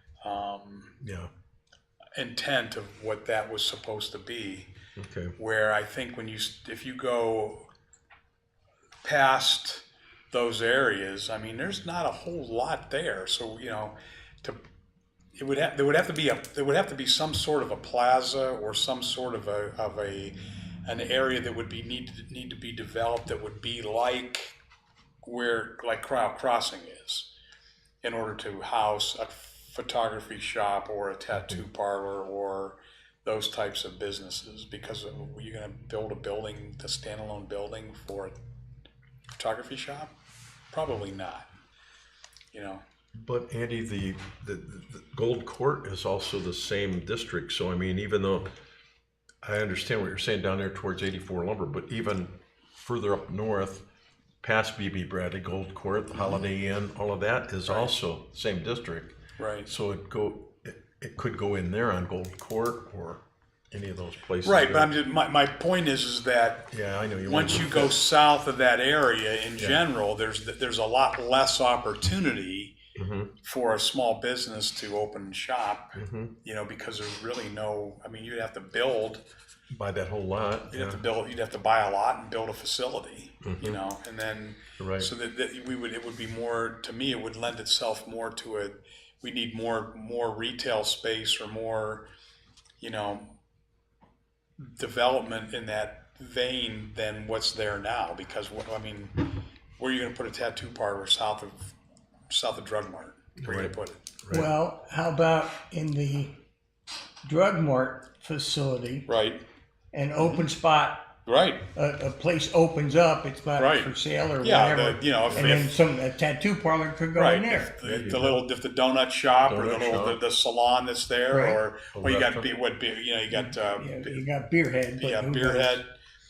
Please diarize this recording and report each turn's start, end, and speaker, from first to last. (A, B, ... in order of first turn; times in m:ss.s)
0:00.2-0:01.0 A
0:01.0-0:01.3 B
0:02.2-0:04.7 A
0:05.0-0:05.3 B
0:05.4-0:07.7 A
0:09.0-0:14.6 A
0:15.3-0:24.5 A
0:25.2-0:27.3 A
0:28.0-0:38.4 A
0:39.4-0:40.1 A
0:40.7-0:41.5 A
0:42.5-0:42.8 A
0:43.2-0:48.5 B
0:49.4-0:53.8 B
0:54.4-1:04.9 B
0:57.6-0:57.9 A
0:59.4-0:59.7 A
1:04.4-1:06.7 A
1:06.7-1:07.9 B
1:07.2-1:12.8 A
1:13.0-1:13.3 B
1:13.4-1:19.2 A
1:15.9-1:16.3 B
1:19.7-1:21.0 B
1:20.7-1:32.1 A
1:23.4-1:23.8 B
1:24.8-1:25.1 B
1:32.8-1:33.3 A
1:34.6-1:41.7 A
1:42.3-1:44.0 A
1:43.4-1:43.7 B
1:44.2-1:44.5 B
1:44.3-1:46.4 C
1:47.2-1:49.1 C
1:49.1-1:49.4 A
1:49.9-1:51.1 C
1:50.2-1:50.4 A
1:51.2-1:51.6 A
1:51.7-1:57.7 C
1:53.6-1:55.8 A
1:57.1-2:04.2 A
1:57.8-1:58.4 B
1:59.4-2:00.2 B
2:01.3-2:01.6 C
2:01.9-2:02.5 B
2:03.3-2:05.8 C
2:05.0-2:05.9 A